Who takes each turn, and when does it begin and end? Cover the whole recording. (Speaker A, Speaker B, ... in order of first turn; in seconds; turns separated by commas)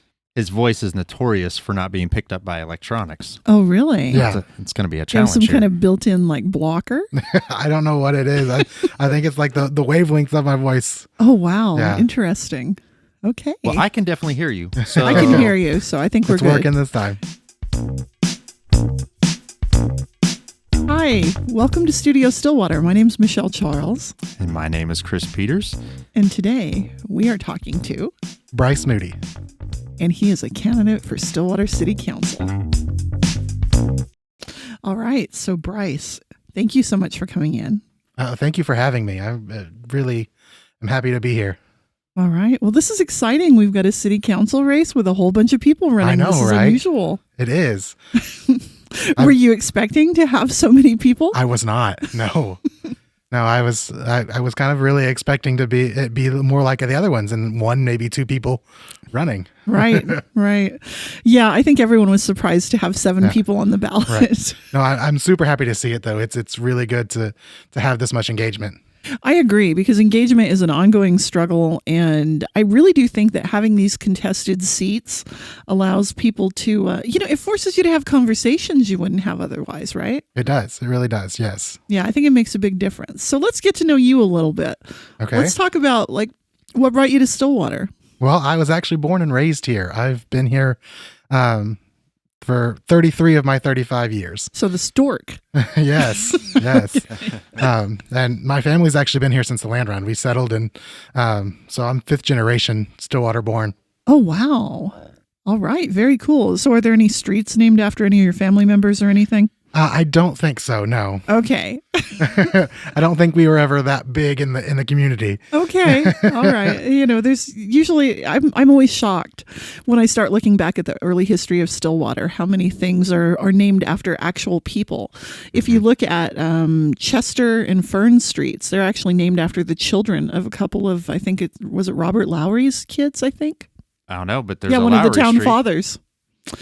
Speaker A: 0.3-3.4, Speaker B: 3.5-4.3, Speaker C: 4.1-4.4, Speaker A: 4.1-5.7, Speaker B: 5.1-7.1, Speaker C: 7.1-11.1, Speaker B: 11.2-13.8, Speaker C: 11.7-12.1, Speaker A: 13.6-15.5, Speaker C: 14.9-15.6, Speaker B: 15.0-16.7, Speaker C: 16.3-17.2, Speaker B: 20.9-24.1, Speaker A: 24.4-25.8, Speaker B: 26.1-28.1, Speaker C: 28.5-29.2, Speaker B: 30.0-32.5, Speaker B: 34.5-37.8, Speaker C: 38.2-40.3, Speaker C: 40.8-41.6, Speaker B: 42.1-47.2, Speaker C: 46.0-46.8, Speaker C: 47.4-48.0, Speaker B: 48.3-51.4, Speaker C: 51.3-52.6, Speaker C: 53.3-60.2, Speaker B: 59.7-64.6, Speaker C: 64.1-68.8, Speaker B: 69.2-80.2, Speaker C: 80.3-81.8, Speaker B: 81.9-87.9, Speaker C: 85.2-85.5, Speaker C: 88.2-90.8, Speaker C: 91.3-91.8, Speaker C: 92.4-94.5, Speaker B: 94.5-95.4, Speaker C: 95.5-103.7, Speaker B: 96.0-97.0, Speaker B: 104.1-109.5, Speaker C: 109.7-111.2, Speaker B: 111.3-112.5, Speaker C: 112.2-116.8, Speaker B: 115.5-133.7, Speaker A: 134.1-135.6, Speaker B: 134.7-136.0